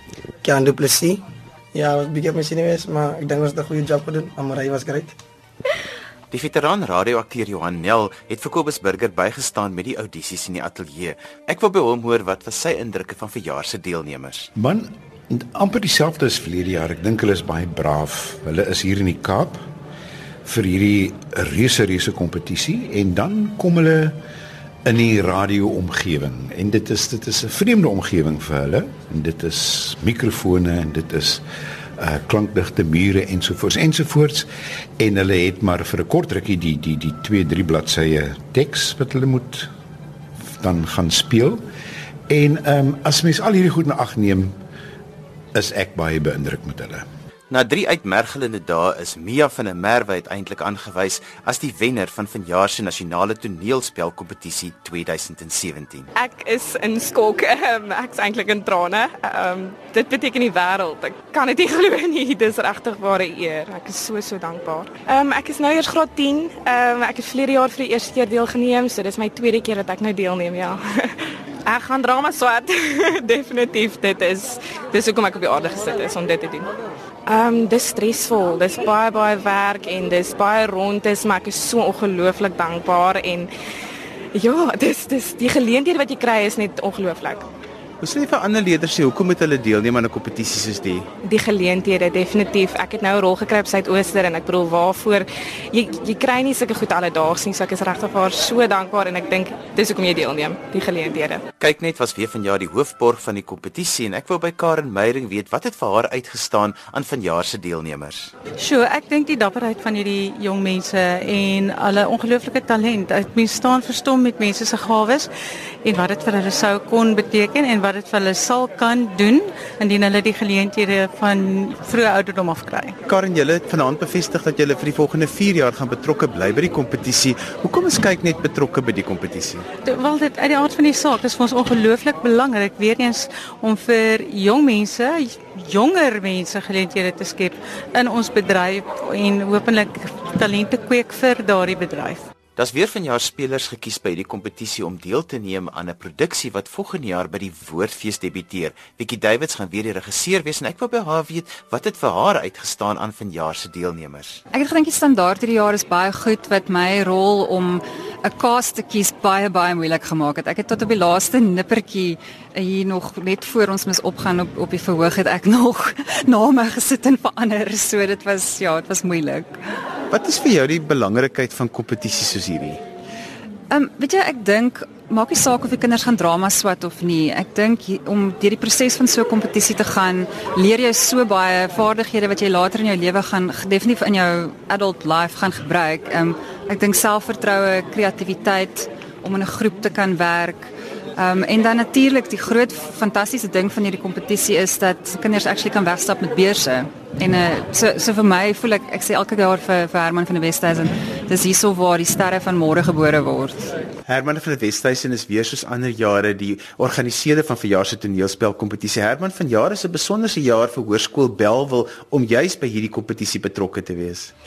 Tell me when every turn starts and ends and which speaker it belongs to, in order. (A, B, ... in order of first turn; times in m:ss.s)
0:00.5-0:01.2 A
0:01.8-0:05.1 A
0:06.3-0:14.5 B
0:14.6-0:19.6 C
0:20.4-0:24.2 C
0:24.8-0:31.4 C
0:32.0-0:34.5 C
0:35.0-0:39.7 C
0:40.6-0:41.6 C
0:42.3-0:44.6 C
0:45.6-0:47.0 C
0:47.5-0:56.1 B
0:56.2-1:16.7 D
1:17.3-1:23.5 D
1:24.3-1:27.5 D
1:28.0-1:31.1 E
1:31.2-1:41.4 D
1:41.6-1:48.3 B
1:48.6-1:55.3 F
1:55.8-2:03.0 F
2:03.1-2:09.6 E
2:09.8-2:22.3 F
2:22.6-2:34.4 B
2:34.5-2:49.5 G
2:50.1-2:52.8 E
2:53.7-3:23.6 G
3:24.1-3:34.3 E